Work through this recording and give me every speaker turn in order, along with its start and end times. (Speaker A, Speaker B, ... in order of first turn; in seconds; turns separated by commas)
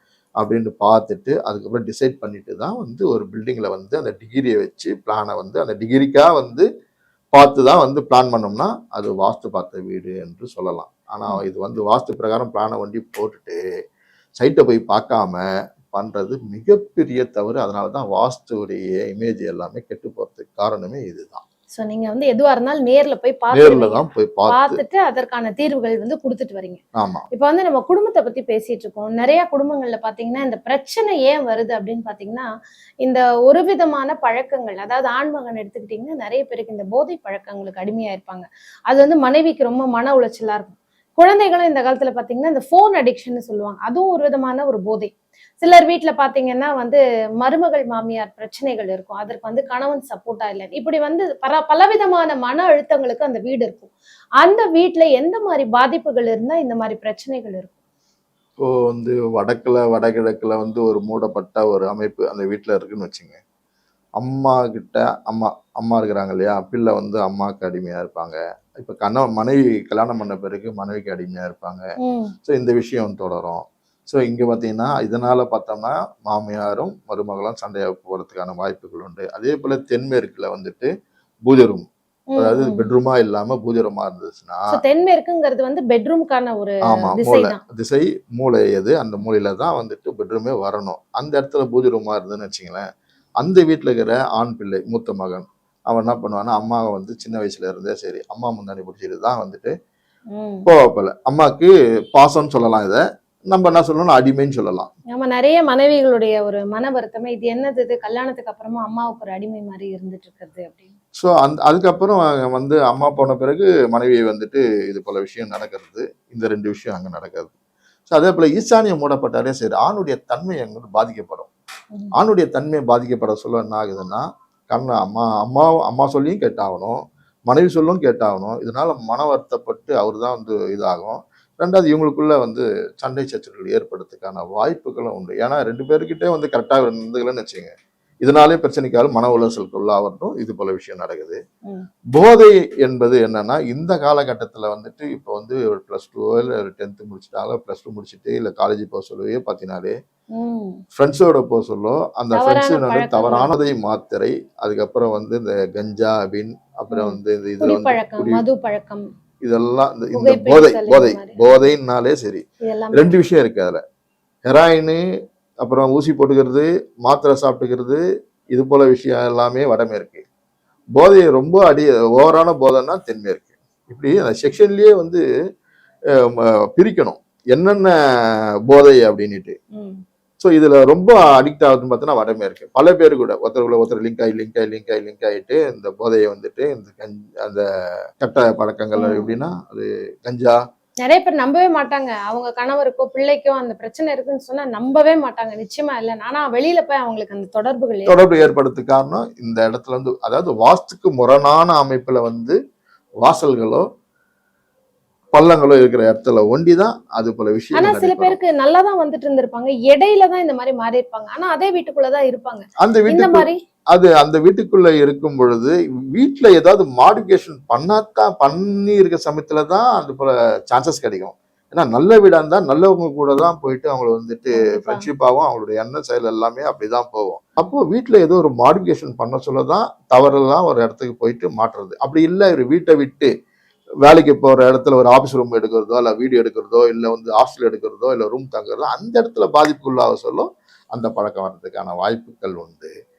Speaker A: 0.4-6.7, Speaker A: 7.3-13.6, Speaker A: 14.4-21.4, Speaker B: 21.8-26.8, Speaker A: 23.5-24.8, Speaker A: 27.0-27.2, Speaker B: 27.3-32.5, Speaker B: 33.0-57.7, Speaker A: 58.6-63.4, Speaker A: 64.2-71.8, Speaker B: 72.0-72.3, Speaker A: 72.4-80.9, Speaker A: 81.5-81.8, Speaker B: 82.3-82.9, Speaker A: 82.4-84.7, Speaker B: 84.7-87.6, Speaker A: 87.0-92.8, Speaker A: 93.4-99.7, Speaker B: 100.3-100.7, Speaker A: 100.7-103.0, Speaker A: 103.5-104.9, Speaker B: 105.1-110.9, Speaker A: 111.2-117.5, Speaker A: 118.1-121.5, Speaker A: 122.1-137.7, Speaker A: 138.2-141.4, Speaker A: 142.1-149.9, Speaker B: 150.3-150.8, Speaker A: 150.9-158.4, Speaker B: 152.3-153.5, Speaker B: 156.9-159.1, Speaker A: 159.4-162.4, Speaker B: 160.1-161.4, Speaker B: 162.6-163.1, Speaker A: 162.9-163.8, Speaker A: 164.5-165.0, Speaker A: 165.6-168.0, Speaker A: 168.5-170.2, Speaker A: 170.9-175.2, Speaker A: 176.2-177.9, Speaker A: 178.7-179.6, Speaker B: 179.7-180.0, Speaker A: 180.4-187.6, Speaker A: 188.2-190.6, Speaker B: 189.0-189.3, Speaker B: 191.0-198.2, Speaker A: 198.1-202.6, Speaker A: 203.2-203.8, Speaker A: 205.3-208.4, Speaker B: 207.7-213.6, Speaker A: 212.8-233.3, Speaker B: 224.6-225.1, Speaker A: 234.0-242.9